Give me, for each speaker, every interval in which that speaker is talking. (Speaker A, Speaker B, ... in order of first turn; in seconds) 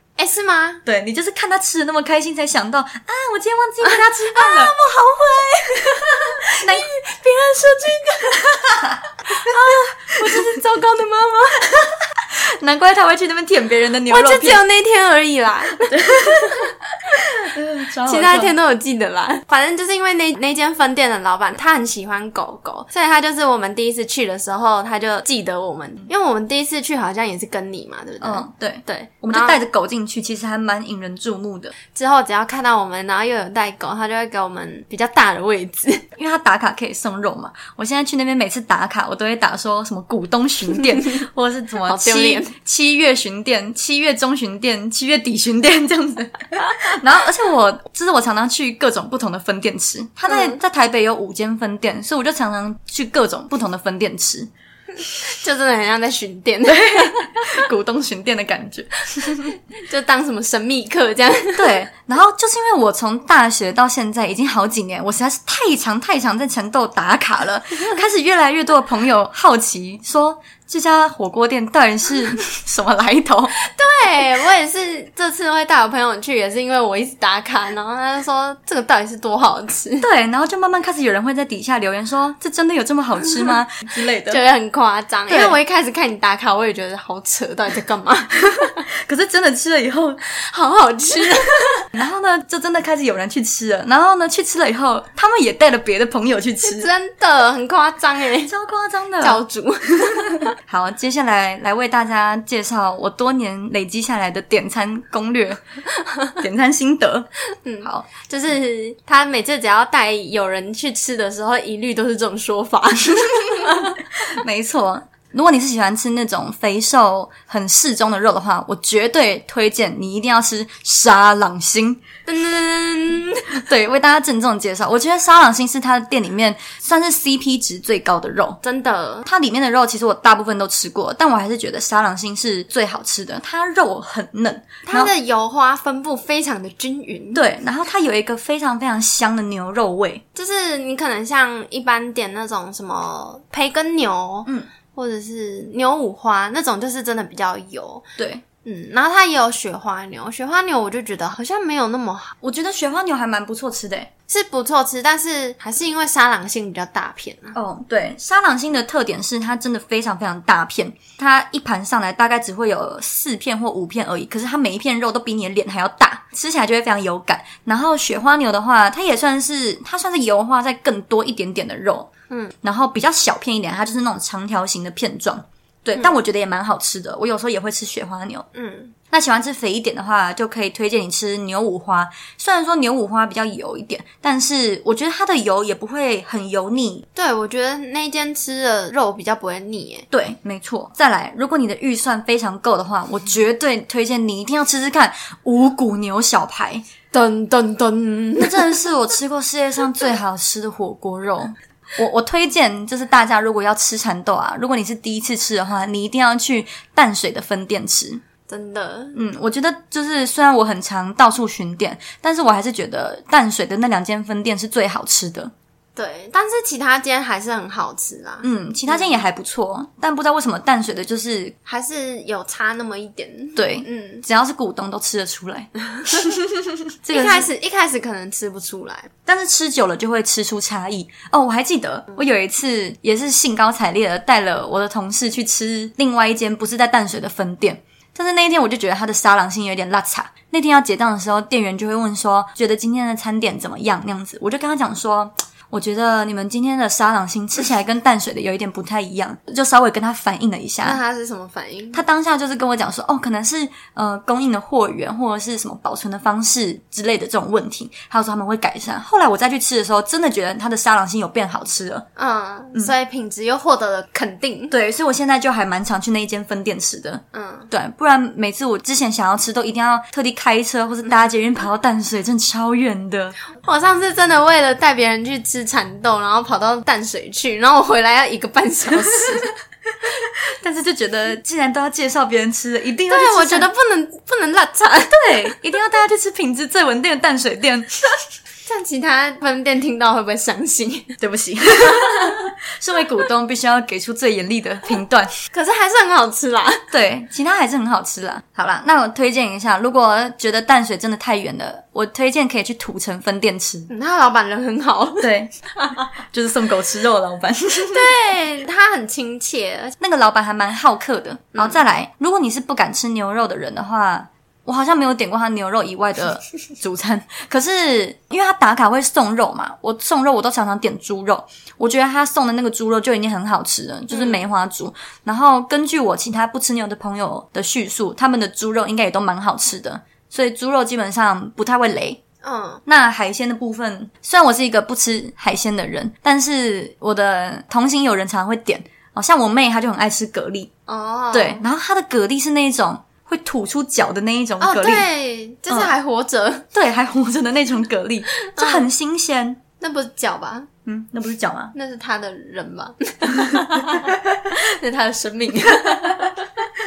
Speaker A: 0.2-0.8, 3.8-11.8, 14.1-16.7, 18.1-29.6, 31.9-36.1, 41.9-42.5, 50.3-50.6, 55.2-57.5, 59.7-61.8, 73.7-80.1, 84.3-88.7, 90.3-91.9, 96.6-98.5, 99.2-100.5, 107.7-114.0, 122.3-123.6, 128.6-129.3, 134.9-137.4, 140.3-148.0, 148.6-152.4, 154.3-157.6, 178.5-178.9, 187.2-190.1, 197.1-198.8, 208.5-209.2, 216.0-219.2, 221.7-224.2, 227.1-229.1, 250.8-252.0, 262.2-264.7, 267.3-267.7, 273.6-279.5, 283.1-285.5, 288.6-291.2, 291.8-292.4, 295.5-296.9, 303.9-306.1, 307.9-310.0, 324.1-324.4, 332.4-332.8, 340.9-341.6, 344.6-346.7, 348.5-348.9, 349.8-350.7, 351.8-356.5
Speaker B: 0.8-4.8, 6.4-6.9, 8.7-9.5, 12.2-14.6, 15.9-18.5, 28.2-31.8, 36.2-54.5, 56.7-59.5, 61.5-73.6, 80.0-84.4, 85.3-85.6, 88.5-90.2, 92.0-96.9, 98.5-99.4, 100.0-105.6, 106.4-107.3, 107.8-108.1, 114.2-122.0, 123.7-128.6, 129.2-135.1, 137.3-140.2, 148.2-148.4, 152.4-154.1, 157.5-172.1, 172.6-178.5, 179.1-187.1, 190.1-196.8, 198.4-208.2, 209.1-215.5, 218.4-221.6, 223.6-227.5, 229.3-251.0, 251.9-262.1, 264.7-273.4, 280.2-283.7, 285.1-287.9, 291.2-295.4, 296.9-303.9, 305.2-305.5, 306.2-308.1, 310.0-332.2, 332.9-340.7, 341.3-345.1, 346.7-349.6, 350.9-351.7, 353.4-353.9